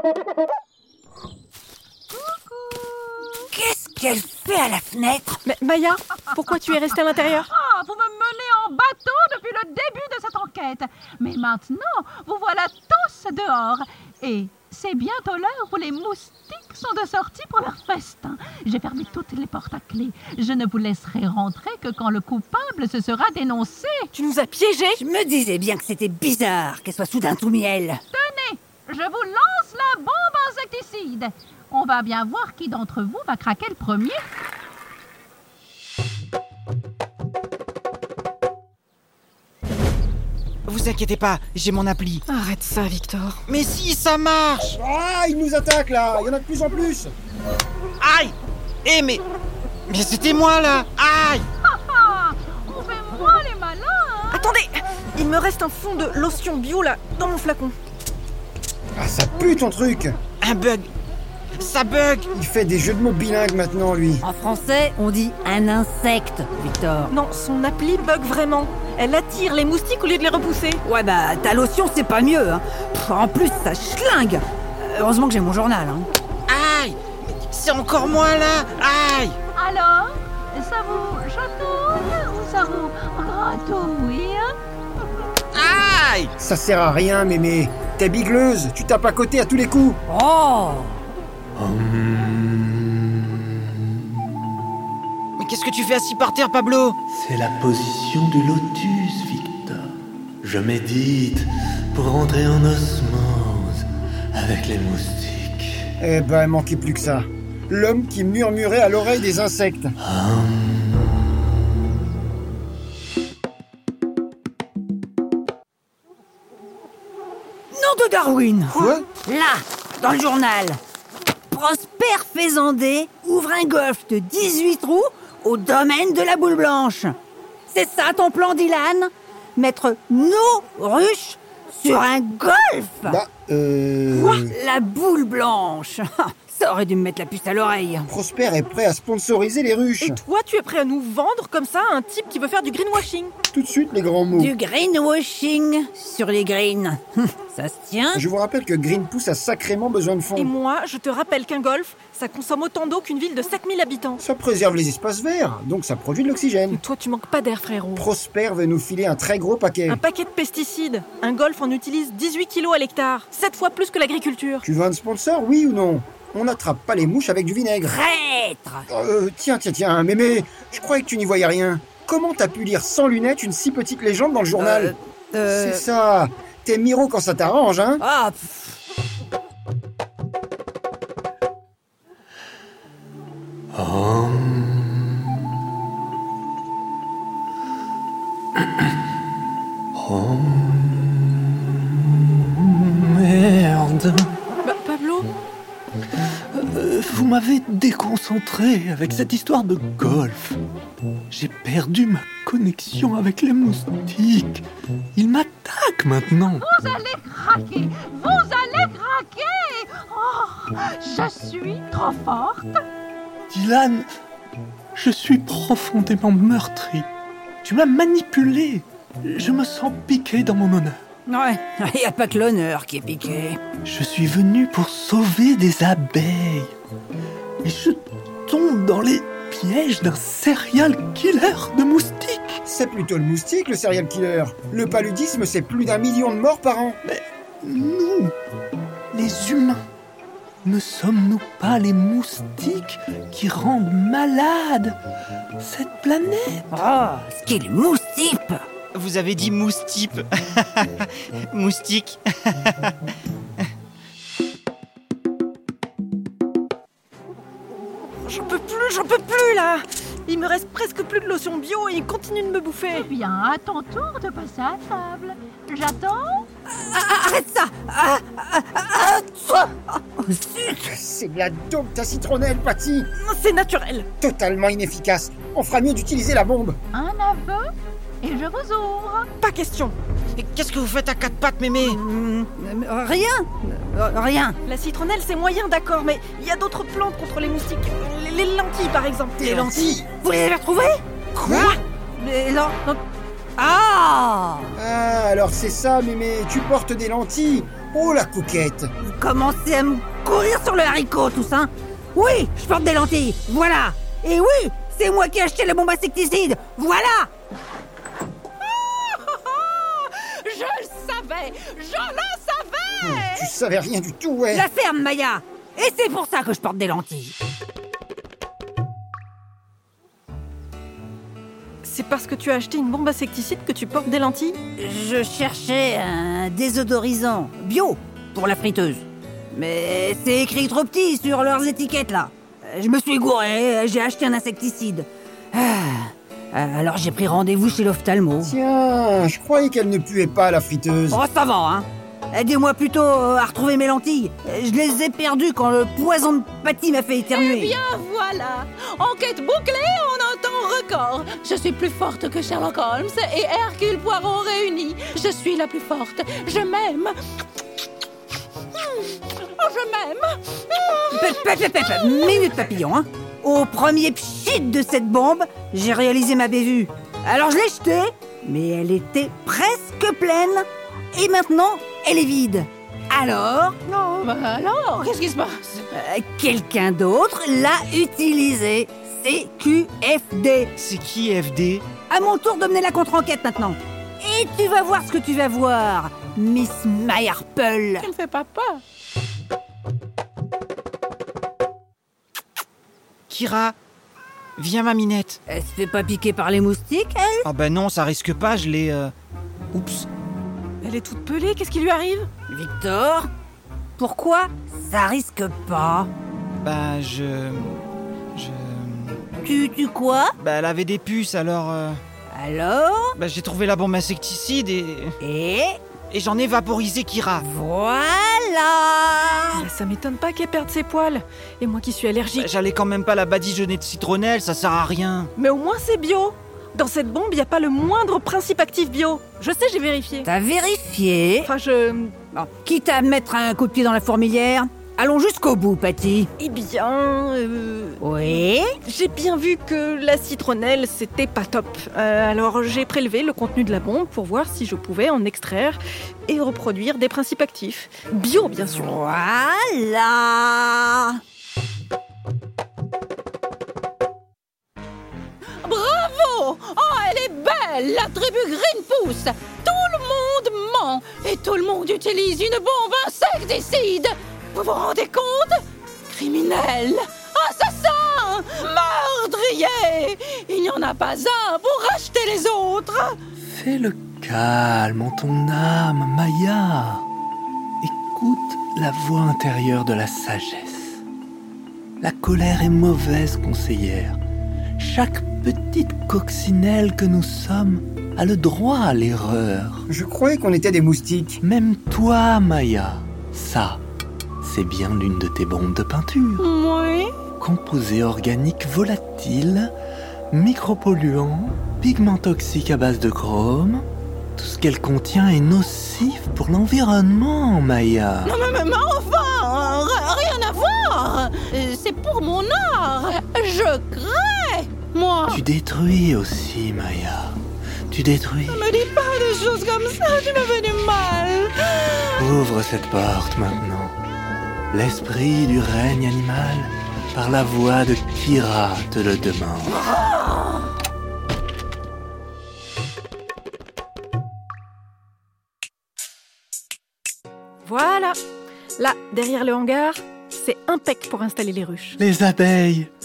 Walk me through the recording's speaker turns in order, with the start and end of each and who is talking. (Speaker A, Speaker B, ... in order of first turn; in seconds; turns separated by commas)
Speaker A: 2.1-3.4, Speaker B: 3.5-5.4, Speaker C: 5.4-7.5, Speaker A: 7.4-24.1, Speaker C: 24.1-25.0, Speaker B: 25.0-28.0, Speaker A: 28.1-34.2, Speaker D: 40.7-42.2, Speaker C: 42.3-43.4, Speaker D: 43.5-44.8, Speaker E: 44.8-47.1, Speaker D: 48.0-49.2, Speaker D: 49.9-51.5, Speaker A: 51.6-54.5, Speaker C: 54.3-57.7, Speaker E: 59.0-60.2, Speaker D: 60.4-60.9, Speaker D: 61.6-62.3, Speaker E: 62.3-64.2, Speaker B: 64.2-67.1, Speaker C: 67.1-70.8, Speaker B: 70.8-76.1, Speaker D: 76.5-79.4, Speaker A: 79.5-84.5, Speaker D: 85.5-86.3, Speaker E: 86.4-90.0, Speaker B: 90.1-91.0, Speaker F: 91.5-94.2, Speaker D: 95.4-97.0, Speaker F: 97.1-105.9, Speaker E: 106.0-109.9, Speaker F: 110.0-111.4, Speaker B: 117.7-120.8, Speaker E: 118.7-119.0, Speaker B: 121.5-127.2, Speaker B: 127.7-133.2, Speaker E: 133.1-134.5, Speaker B: 134.1-138.1, Speaker E: 138.1-140.2, Speaker C: 140.0-143.3, Speaker E: 143.5-144.5, Speaker B: 144.3-148.2, Speaker E: 148.1-150.5, Speaker C: 150.3-154.2, Speaker E: 154.2-156.8, Speaker C: 156.7-158.1, Speaker E: 157.9-160.0, Speaker C: 159.9-164.6, Speaker E: 164.6-168.0, Speaker B: 167.8-168.9, Speaker E: 168.9-174.9, Speaker B: 174.6-175.8, Speaker E: 175.4-178.0, Speaker B: 178.0-178.8, Speaker F: 183.7-185.5, Speaker F: 188.6-188.9, Speaker F: 189.9-194.3, Speaker C: 194.6-195.3, Speaker F: 196.5-200.6, Speaker F: 201.3-206.7, Speaker A: 206.6-212.8, Speaker F: 213.5-214.1, Speaker F: 214.9-217.1, Speaker F: 217.6-221.0, Speaker B: 221.3-223.6, Speaker F: 223.8-226.7, Speaker F: 227.6-232.6, Speaker E: 232.6-237.0, Speaker F: 237.0-238.3, Speaker F: 239.1-239.8, Speaker F: 240.6-245.0, Speaker F: 245.6-246.7, Speaker B: 246.7-248.6, Speaker D: 248.9-252.9, Speaker C: 258.2-263.1, Speaker A: 262.9-266.5, Speaker B: 266.7-270.9, Speaker E: 270.8-273.1, Speaker C: 273.1-274.1, Speaker E: 274.2-276.8, Speaker A: 276.9-277.7, Speaker A: 278.2-279.3, Speaker C: 279.4-279.9, Speaker D: 280.4-282.0, Speaker B: 281.8-284.6, Speaker C: 284.6-290.0, Speaker D: 289.4-290.0, Speaker B: 290.2-293.0, Speaker E: 291.4-291.8, Speaker B: 293.6-294.7, Speaker E: 294.8-298.9, Speaker B: 299.0-307.3, Speaker G: 308.6-313.5, Speaker E: 313.0-314.7, Speaker B: 314.5-317.3, Speaker C: 321.8-324.6, Speaker B: 324.8-338.5, Speaker E: 338.4-341.2, Speaker B: 341.1-347.7, Speaker G: 347.3-357.2, Speaker G: 358.8-361.4, Speaker B: 361.1-373.8, Speaker G: 373.9-375.9, Speaker B: 375.9-380.7, Speaker D: 380.8-381.8, Speaker B: 382.1-388.1, Speaker G: 388.0-388.8, Speaker D: 393.3-393.8, Speaker D: 394.6-395.4, Speaker B: 395.5-397.5, Speaker D: 397.4-399.1, Speaker D: 399.7-400.1, Speaker C: 400.8-402.3, Speaker B: 402.5-403.3, Speaker B: 404.0-406.1, Speaker D: 406.6-409.2, Speaker B: 409.4-410.4, Speaker D: 410.4-412.0, Speaker B: 412.3-413.1, Speaker D: 413.2-415.2, Speaker B: 415.2-415.8, Speaker D: 416.1-417.4, Speaker B: 417.4-419.7, Speaker C: 419.6-422.5, Speaker D: 422.4-425.3, Speaker C: 425.4-430.3, Speaker B: 430.2-431.5, Speaker C: 431.4-432.1, Speaker B: 432.3-436.3, Speaker C: 436.4-438.0, Speaker B: 438.0-438.8, Speaker C: 438.8-448.9, Speaker B: 448.8-451.2, Speaker G: 455.6-473.2, Speaker F: 473.4-477.1, Speaker F: 477.8-481.0, Speaker F: 482.0-484.2, Speaker F: 484.8-489.9, Speaker E: 489.9-491.4, Speaker F: 491.4-493.8, Speaker F: 494.4-496.4, Speaker G: 496.4-497.1, Speaker F: 497.4-499.7, Speaker F: 500.3-508.4, Speaker G: 508.2-515.4, Speaker F: 515.3-518.6, Speaker G: 518.5-522.2, Speaker F: 522.2-524.0, Speaker F: 524.7-529.9, Speaker G: 529.8-530.3, Speaker C: 537.6-538.2, Speaker C: 538.8-542.0, Speaker F: 542.0-542.9